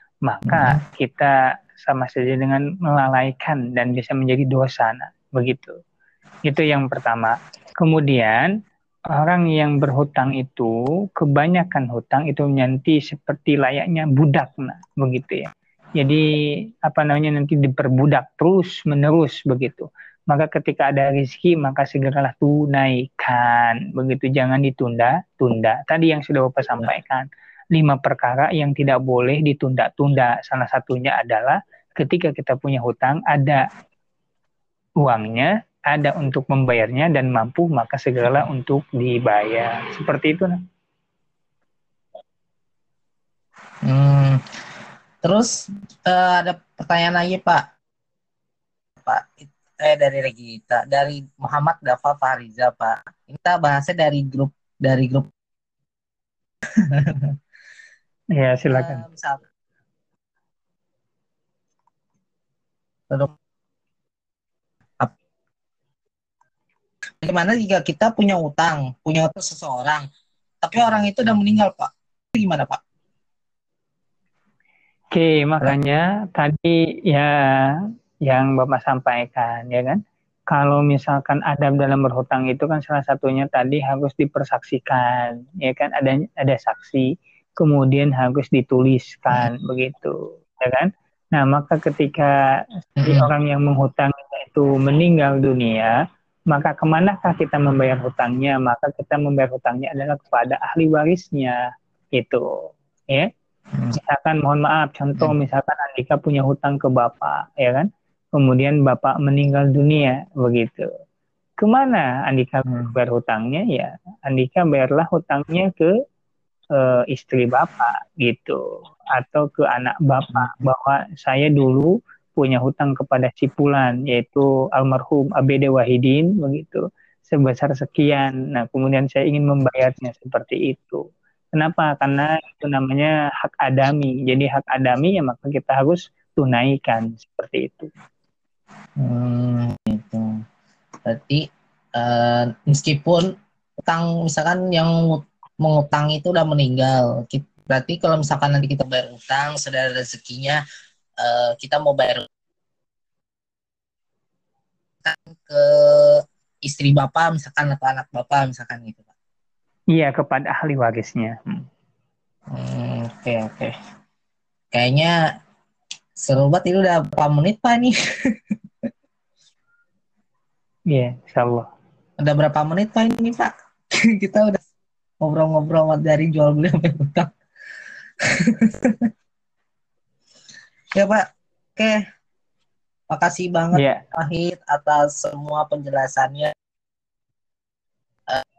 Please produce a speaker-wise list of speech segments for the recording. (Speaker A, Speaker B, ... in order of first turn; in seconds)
Speaker A: 0.2-5.8, 6.5-8.5, 9.1-16.3, 16.8-33.7, 35.0-40.6, 58.4-59.0, 75.1-80.0, 80.5-92.3, 93.0-96.0, 96.5-101.6, 102.2-103.3, 103.9-110.9, 111.6-115.9, 116.8-137.9, 159.9-161.7, 170.9-171.7, 183.7-184.0
Speaker B: 0.5-0.8, 43.9-44.4, 45.2-47.6, 49.0-55.3, 56.8-57.4, 58.7-59.5, 63.1-63.4, 67.2-70.1, 70.6-72.8, 93.0-93.3, 103.7-104.0, 112.7-113.0, 120.3-120.7, 139.0-140.4, 141.1-150.6, 151.2-152.3, 155.0-159.1, 162.5-163.7, 164.7-165.2, 166.2-168.9, 172.2-174.6, 175.2-177.3, 178.2-179.1, 180.9-181.2, 181.8-182.0, 183.1-186.5